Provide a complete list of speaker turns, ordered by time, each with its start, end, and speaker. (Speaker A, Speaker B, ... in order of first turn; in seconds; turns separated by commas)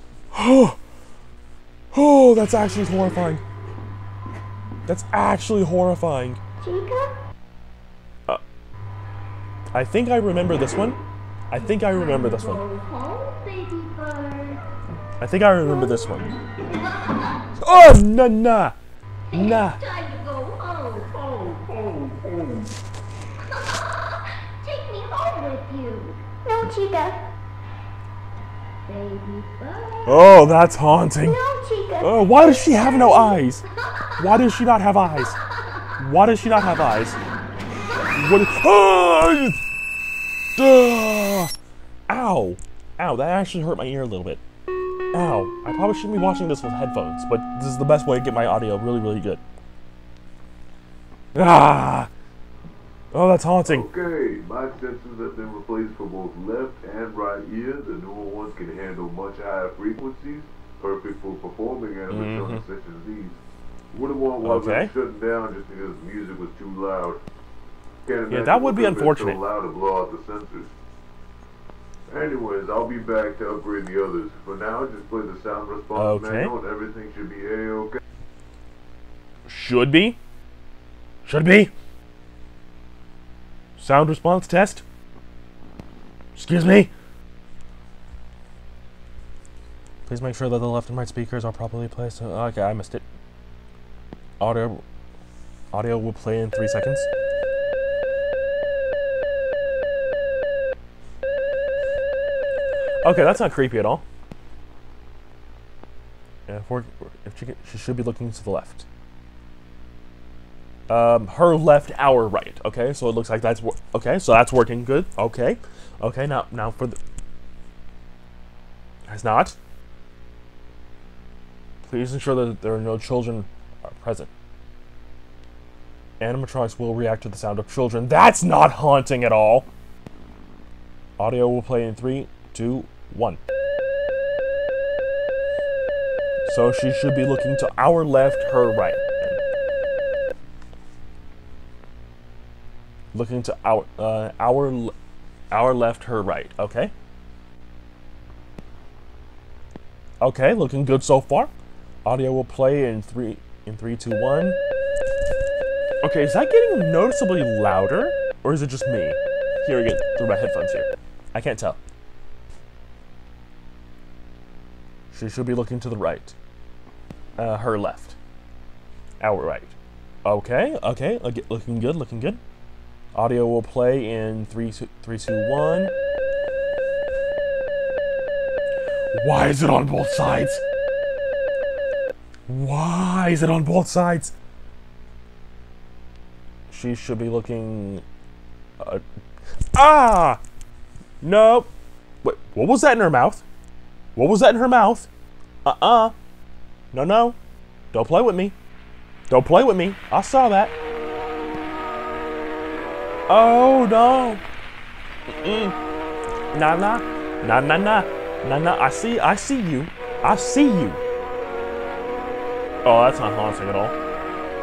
Speaker A: 0.3-0.8, Speaker A: 1.9-3.4, Speaker A: 4.9-6.4, Speaker B: 6.6-7.1, Speaker A: 9.7-11.0, Speaker A: 11.5-12.6, Speaker B: 11.6-14.6, Speaker A: 15.2-16.4, Speaker B: 15.7-17.5, Speaker A: 17.6-18.8, Speaker B: 19.3-22.7, Speaker A: 19.3-19.8, Speaker B: 24.6-27.2, Speaker B: 28.9-30.5, Speaker A: 30.1-31.4, Speaker B: 31.2-33.6, Speaker A: 32.0-33.6, Speaker A: 34.2-35.4, Speaker A: 36.0-37.2, Speaker A: 38.1-39.6, Speaker A: 40.6-41.5, Speaker A: 42.1-44.4, Speaker A: 45.1-49.4, Speaker A: 51.3-52.1, Speaker A: 53.1-53.9, Speaker C: 53.6-63.4, Speaker A: 62.1-62.6, Speaker C: 63.9-67.2, Speaker A: 64.4-64.9, Speaker C: 68.0-70.7, Speaker A: 68.3-69.4, Speaker C: 72.1-78.0, Speaker A: 75.9-76.5, Speaker A: 79.5-80.2, Speaker A: 81.3-81.7, Speaker A: 83.8-84.8, Speaker A: 86.4-86.9, Speaker A: 90.1-93.0, Speaker A: 94.4-94.8, Speaker A: 95.7-97.1, Speaker A: 103.0-104.0, Speaker A: 106.5-108.9, Speaker A: 110.9-117.0, Speaker A: 119.1-119.6, Speaker A: 121.8-124.3, Speaker A: 126.2-129.7, Speaker A: 131.2-133.4, Speaker A: 136.4-139.4, Speaker A: 143.1-144.9, Speaker A: 145.5-146.9, Speaker A: 150.2-151.5, Speaker A: 152.1-154.6, Speaker A: 156.0-161.8, Speaker A: 165.1-166.3, Speaker A: 167.4-168.2, Speaker A: 169.2-172.4, Speaker A: 173.1-175.9, Speaker A: 179.1-180.6, Speaker A: 182.5-184.3, Speaker A: 186.7-188.0, Speaker A: 189.7-190.4, Speaker A: 191.2-191.7, Speaker A: 192.2-193.4, Speaker A: 194.2-195.1, Speaker A: 195.6-196.1, Speaker A: 196.9-197.4, Speaker A: 197.9-198.6, Speaker A: 199.3-200.8, Speaker A: 203.3-204.4, Speaker A: 205.3-205.8, Speaker A: 206.5-211.0, Speaker A: 212.8-214.0